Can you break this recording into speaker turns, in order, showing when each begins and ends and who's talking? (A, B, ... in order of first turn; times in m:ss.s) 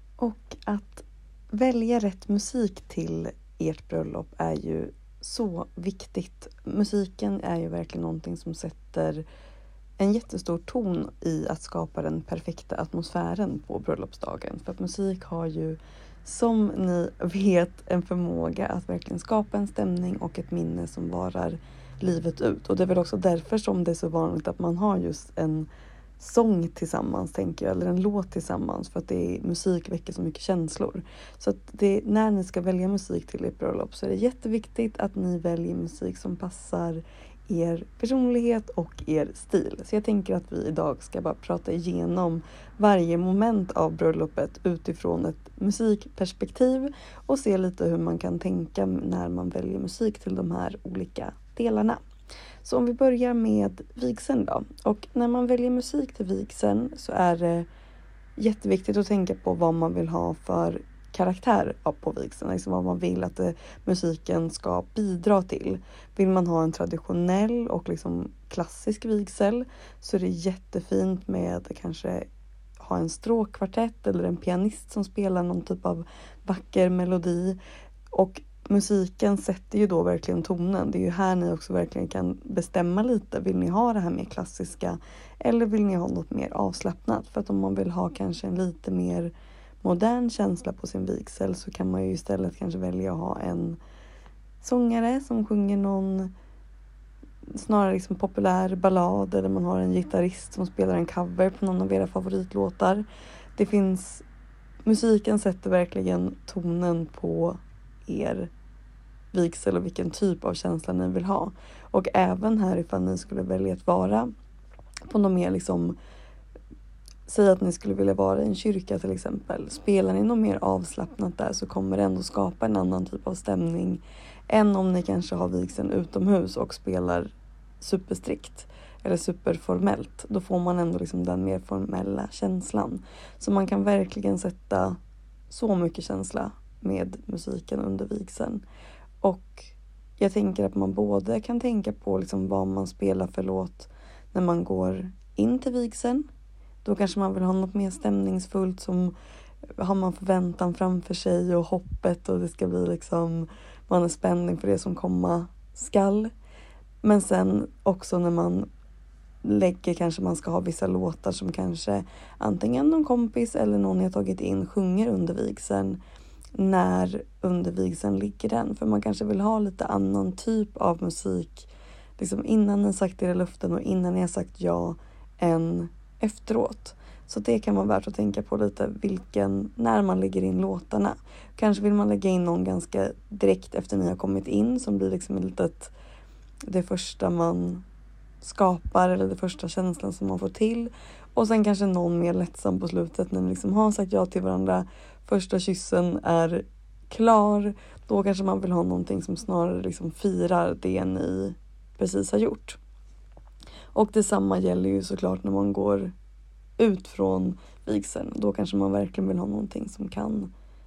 0:00.2-0:09.2 A
0:10.0-0:25.7 A
0:26.2-0:52.0 A
0:52.6-0:57.7 A
0:58.4-1:12.3 A
1:12.8-1:17.6 A
1:18.1-1:33.8 A
1:34.6-1:36.3 A
1:37.5-1:43.0 A
1:43.6-1:44.2 A
1:44.8-1:48.5 A
1:49.3-1:54.3 A
1:55.1-1:56.0 A
1:57.3-2:15.0 A
2:15.5-2:18.6 A
2:19.2-2:26.3 A
2:26.8-2:29.2 A
2:29.8-2:36.3 A
2:37.0-2:38.7 A
2:39.4-2:46.0 A
2:46.6-3:05.9 A
3:06.7-3:07.8 A
3:08.4-3:22.8 A
3:23.9-3:26.1 A
3:26.8-3:30.5 A